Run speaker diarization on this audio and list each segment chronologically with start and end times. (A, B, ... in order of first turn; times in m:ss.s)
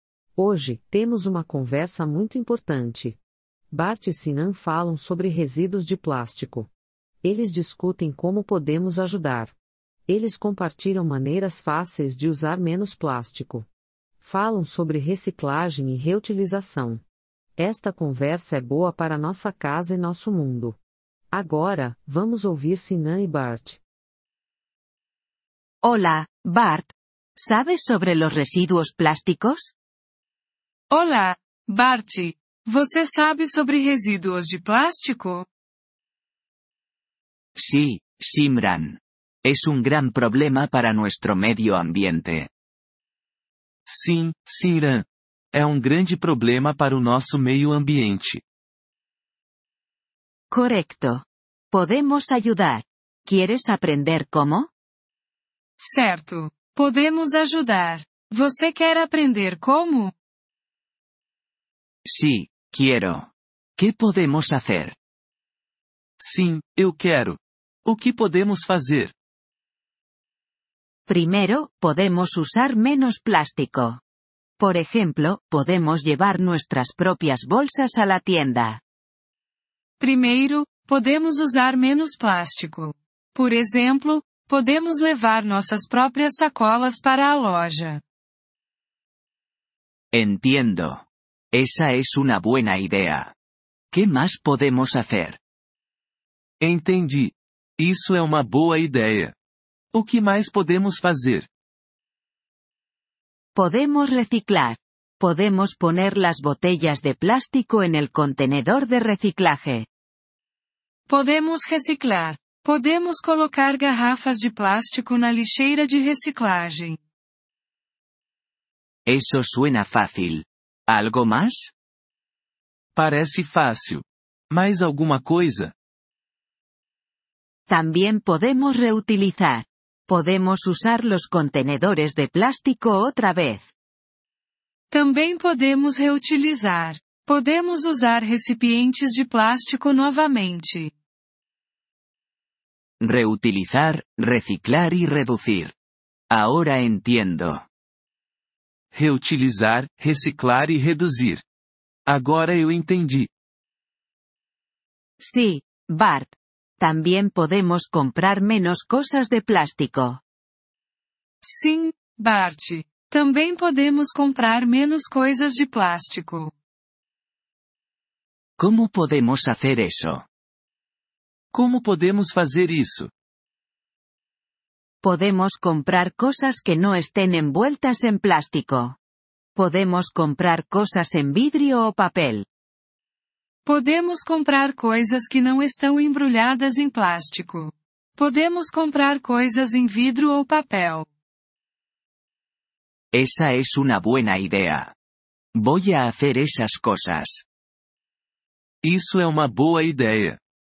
0:00.4-0:03.2 A
0:03.7-0:06.7 A
0:07.2-0:09.6 A
0:10.1-0:13.7 A
0:14.2-0:17.0 A
0:17.6-0:20.8 A
0:21.3-0:23.8 A
0:25.8-0:29.7 B
0:30.9-0:35.5 C
0:37.6-0:42.5 D
0:43.9-0:48.4 E
0:50.5-0:54.7 B
0:55.8-1:00.1 C
1:02.1-1:05.0 D
1:06.2-1:09.2 E
1:11.1-1:14.0 B
1:14.6-1:18.8 B
1:20.0-1:28.0 C
1:30.1-1:33.3 D
1:33.9-1:35.4 D
1:36.6-1:39.4 E
1:39.9-1:41.5 E
1:43.6-1:49.9 B
1:51.1-1:57.0 C
1:59.1-2:01.7 D
2:03.0-2:05.7 E
2:07.7-2:13.7 B
2:14.9-2:20.9 C
2:23.0-2:25.8 D
2:26.3-2:27.6 D
2:28.9-2:31.4 E
2:32.1-2:33.3 E
2:35.2-2:40.2 B
2:41.4-2:46.5 C
2:48.6-2:50.3 D
2:51.5-2:53.1 E
2:55.0-2:59.0 B
2:59.6-3:02.5 B
3:03.6-3:11.1 C
3:13.1-3:14.9 D
3:15.6-3:17.5 D
3:18.8-3:20.4 E